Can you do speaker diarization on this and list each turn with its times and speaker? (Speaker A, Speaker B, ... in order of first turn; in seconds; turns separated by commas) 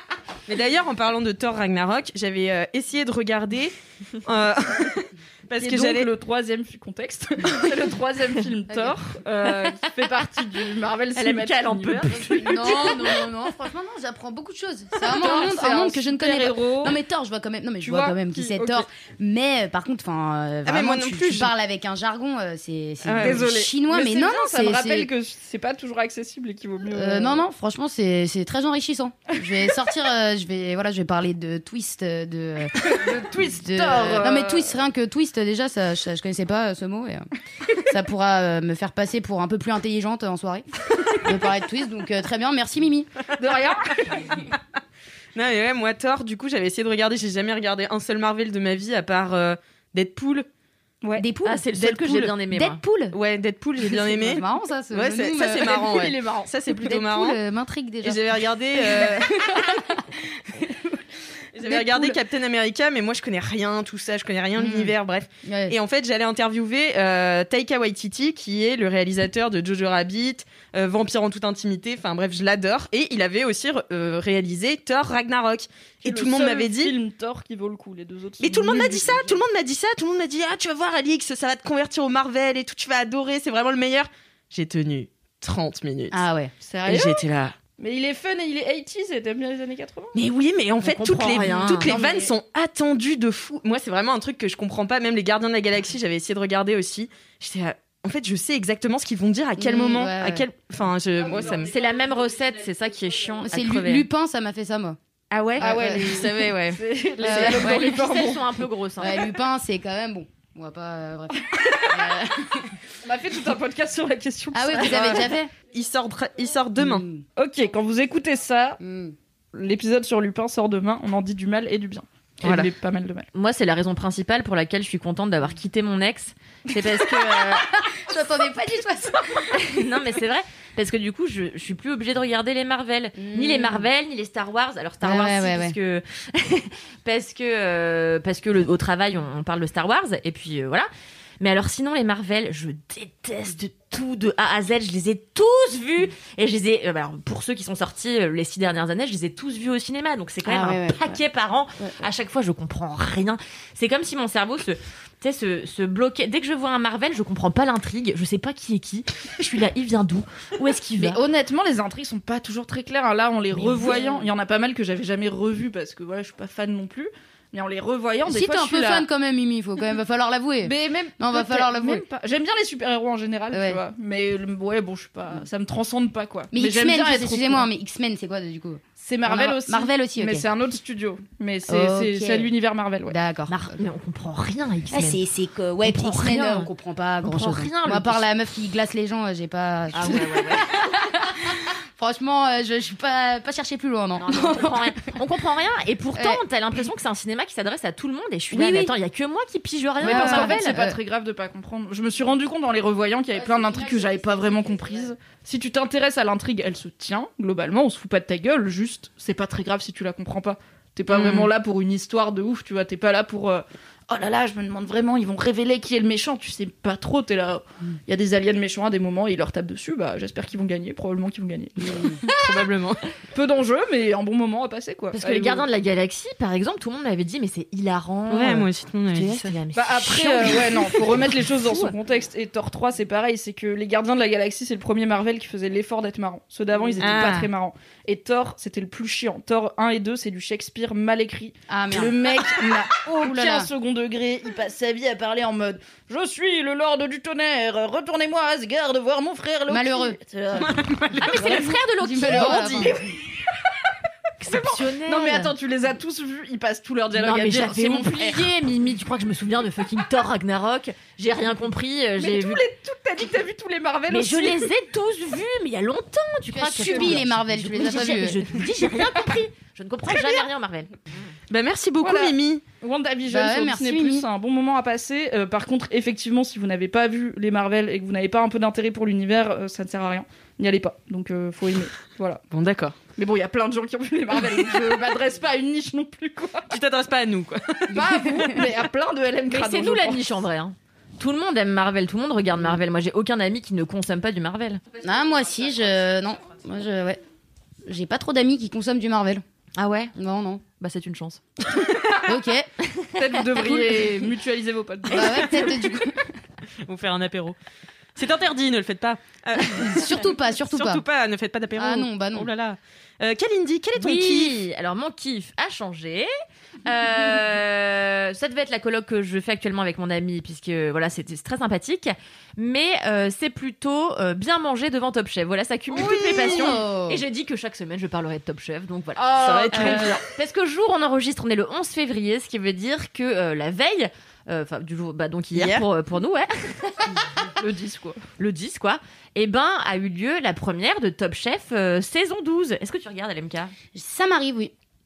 Speaker A: 0.5-6.1, Speaker B: 5.6-12.9, Speaker C: 8.7-8.9, Speaker D: 9.4-9.8, Speaker D: 11.2-13.1, Speaker C: 12.1-25.1, Speaker B: 15.0-17.0, Speaker B: 17.8-18.9, Speaker A: 20.6-21.6, Speaker A: 23.0-23.5, Speaker B: 23.2-27.4, Speaker C: 26.9-32.7, Speaker B: 32.8-34.8, Speaker C: 33.5-37.2, Speaker C: 37.9-40.6, Speaker C: 41.2-43.1, Speaker B: 43.4-44.3, Speaker A: 45.4-50.5, Speaker C: 51.2-53.2, Speaker D: 51.5-52.8, Speaker A: 53.1-57.4, Speaker C: 53.8-55.9, Speaker B: 55.6-56.5, Speaker C: 56.7-60.0, Speaker A: 58.0-59.3, Speaker A: 61.5-77.0, Speaker C: 61.7-62.2, Speaker C: 64.6-65.8, Speaker B: 76.0-79.2, Speaker A: 78.4-86.2, Speaker C: 78.7-79.4, Speaker C: 86.1-86.5, Speaker B: 86.7-87.2, Speaker A: 86.9-87.5, Speaker B: 87.8-90.2, Speaker A: 90.1-101.8, Speaker D: 90.8-91.9, Speaker B: 91.3-92.3, Speaker C: 99.6-100.5, Speaker B: 101.3-102.0, Speaker D: 101.3-104.1, Speaker C: 103.4-105.0, Speaker D: 105.3-106.7, Speaker C: 105.6-106.4, Speaker B: 105.6-108.5, Speaker A: 106.5-106.8, Speaker C: 107.2-108.1, Speaker D: 107.2-109.3, Speaker C: 109.0-111.4, Speaker B: 111.5-112.1, Speaker C: 111.9-112.7, Speaker B: 113.0-115.3, Speaker C: 114.5-115.5, Speaker A: 115.7-117.0, Speaker C: 116.8-117.2, Speaker B: 117.4-118.8, Speaker C: 118.8-119.2, Speaker B: 119.5-123.3, Speaker D: 122.4-122.7, Speaker D: 123.3-127.8, Speaker C: 127.7-129.8, Speaker D: 129.5-140.9, Speaker C: 133.2-133.9, Speaker C: 135.0-135.8, Speaker D: 141.4-161.2, Speaker C: 150.4-151.2, Speaker C: 151.8-152.1, Speaker B: 161.0-169.1, Speaker C: 163.5-164.3, Speaker C: 168.2-172.1, Speaker B: 170.6-177.7, Speaker C: 173.5-173.8, Speaker C: 176.5-180.5, Speaker B: 179.0-183.2, Speaker C: 181.7-182.5, Speaker C: 183.1-183.8, Speaker D: 183.5-185.2, Speaker C: 184.9-195.2, Speaker D: 185.8-186.7, Speaker D: 187.2-188.3, Speaker D: 189.9-190.7, Speaker D: 194.2-200.8, Speaker C: 196.2-196.4, Speaker C: 198.5-198.9, Speaker C: 200.0-201.0, Speaker B: 200.0-222.1, Speaker C: 203.3-205.1, Speaker A: 211.1-211.5, Speaker C: 221.8-222.2, Speaker A: 222.3-223.0, Speaker D: 222.3-222.6, Speaker B: 223.3-225.7, Speaker D: 225.1-231.9, Speaker A: 228.3-229.5, Speaker B: 229.7-250.7, Speaker A: 237.0-237.5, Speaker C: 241.7-242.3, Speaker C: 243.2-243.7, Speaker C: 249.7-250.2, Speaker A: 250.6-251.6, Speaker D: 251.2-253.0, Speaker C: 251.3-253.1, Speaker B: 252.3-253.0, Speaker A: 252.6-252.9, Speaker D: 254.4-255.5, Speaker B: 254.4-258.5, Speaker C: 255.2-255.5, Speaker D: 257.1-262.6, Speaker B: 262.2-264.7, Speaker D: 264.1-270.9, Speaker C: 266.5-268.5, Speaker B: 266.8-267.2, Speaker B: 270.1-270.4, Speaker A: 271.5-272.7, Speaker B: 272.0-282.4, Speaker C: 273.3-274.2, Speaker A: 282.5-283.0, Speaker B: 283.2-286.7, Speaker A: 286.7-287.9, Speaker B: 287.9-290.2, Speaker C: 288.0-288.6, Speaker D: 289.5-294.8, Speaker C: 295.0-297.2, Speaker C: 297.9-299.4, Speaker D: 299.8-300.1, Speaker C: 300.2-300.6, Speaker D: 300.8-301.4, Speaker C: 302.3-302.7, Speaker D: 303.0-304.2, Speaker B: 303.2-305.7, Speaker A: 305.1-305.6, Speaker C: 305.1-306.2, Speaker D: 305.4-305.9, Speaker A: 306.9-307.6, Speaker A: 308.2-314.6, Speaker C: 309.7-311.0, Speaker C: 311.7-312.5, Speaker D: 314.0-316.3, Speaker D: 316.9-337.2, Speaker B: 325.9-326.8, Speaker C: 326.0-327.2, Speaker A: 329.2-330.2, Speaker B: 329.3-330.2, Speaker A: 335.5-335.9, Speaker B: 337.6-338.2, Speaker D: 338.4-343.7, Speaker C: 343.9-344.7